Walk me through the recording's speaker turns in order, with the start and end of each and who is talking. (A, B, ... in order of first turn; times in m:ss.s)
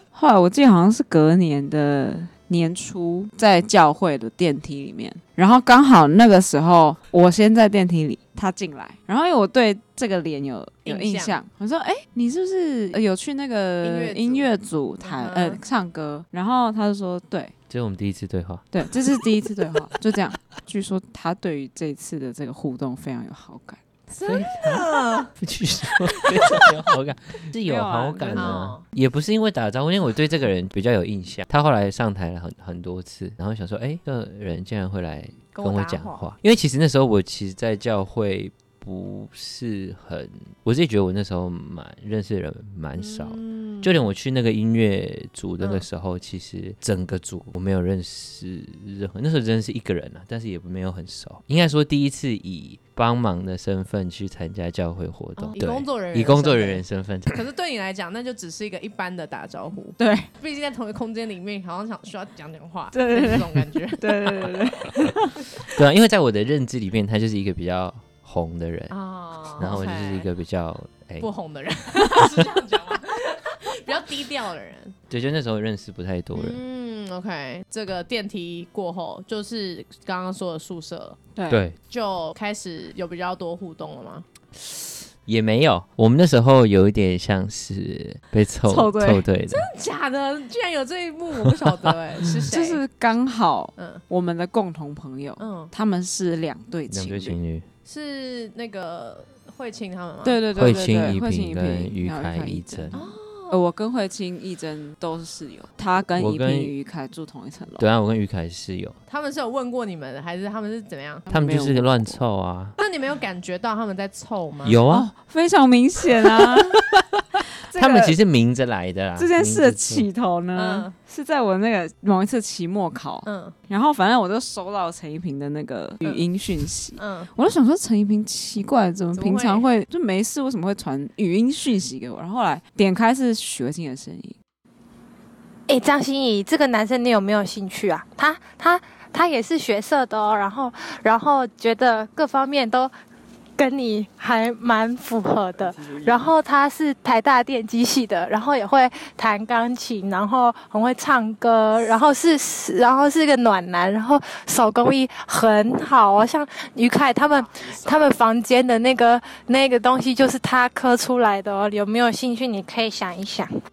0:00.1-0:17.5 A
0:10.8-0:11.4 B
0:13.8-0:14.5 B
0:15.0-0:15.6 B
0:17.7-0:18.7 C
0:18.7-0:23.8 A
0:24.1-0:25.3 B
0:24.2-0:57.4 C
0:26.2-0:26.6 B
0:27.6-0:28.6 A
0:28.3-0:28.8 B
0:35.5-0:36.3 B
0:43.0-0:44.0 B
0:45.6-0:45.9 B
0:55.4-1:04.6 B
1:00.0-1:00.3 A
1:02.9-1:05.4 A
1:05.6-1:08.9 C
1:08.9-1:10.3 B
1:09.6-1:11.3 C
1:11.2-1:15.0 B
1:15.1-1:16.6 C
1:16.3-1:21.2 B
1:21.3-1:21.6 A
1:21.5-1:21.8 C
1:21.9-1:24.3 B
1:25.2-1:29.6 C
1:28.7-1:29.2 A
1:29.5-1:32.8 B
1:31.5-1:32.5 C
1:32.5-1:37.4 A
1:33.8-1:34.0 B
1:35.4-1:35.7 B
1:36.9-1:37.7 C
1:37.8-1:40.4 B
1:40.2-1:47.9 A
1:40.6-1:43.0 C
1:42.9-1:43.6 B
1:46.2-1:46.7 C
1:47.8-1:49.0 C
1:49.1-1:51.3 B
1:51.3-1:52.2 A
1:51.3-1:52.8 C
1:52.8-1:54.8 B
1:54.6-1:55.1 C
1:54.9-1:56.8 A
1:57.7-1:58.2 A
1:57.8-2:00.1 C
1:59.2-2:14.4 A
2:00.6-2:00.9 B
2:03.2-2:03.6 B
2:07.0-2:07.3 B
2:09.1-2:09.6 B
2:15.7-2:22.9 D
2:23.6-2:43.5 D
2:25.8-2:26.2 A
2:37.3-2:38.1 B